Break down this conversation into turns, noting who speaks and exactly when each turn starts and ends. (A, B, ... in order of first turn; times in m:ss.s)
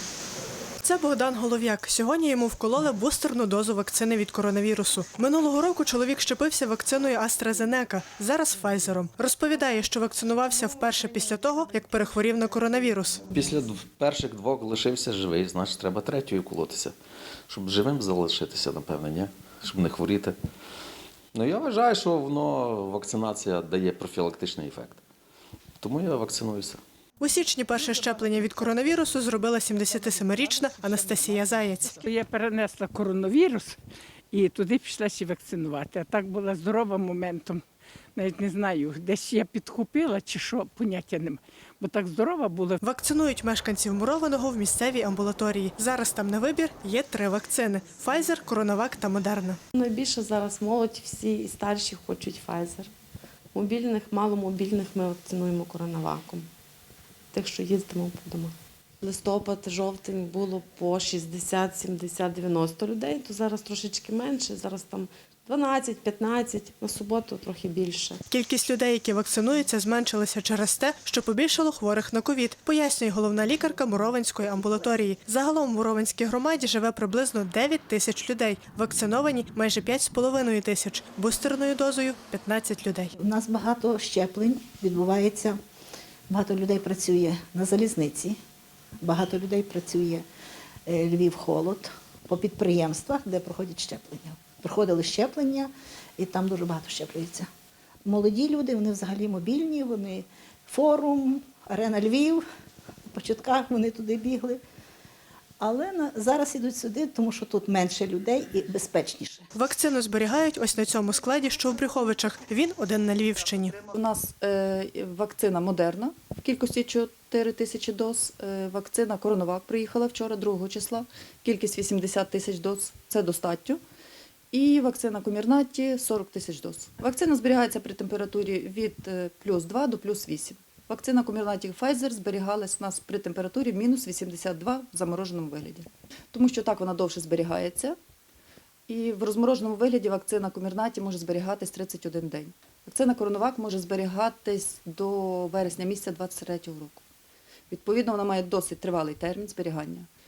0:00.8-0:13.2 A
0:13.3-0:17.0 B
0:17.5-0:20.4 B
0:21.3-0:25.0 B
0:25.8-0:26.8 B
0:27.2-0:32.0 A
0:32.0-0:33.8 C
0:34.3-0:37.6 C
0:38.2-0:42.7 C
0:42.8-0:49.6 A
0:49.7-0:52.9 D
0:53.5-0:56.5 D
0:57.3-1:08.2 D
1:08.3-1:23.1 A
1:23.2-1:25.6 E
1:26.3-1:28.4 E
1:29.0-1:30.2 E
1:30.8-1:37.5 E
1:38.0-1:42.4 E
1:43.1-1:44.6 E
1:45.6-1:49.4 E
1:49.5-1:53.8 A
1:53.9-2:03.8 F
2:04.5-2:17.9 F
2:18.9-2:27.0 F
2:27.7-2:30.1 F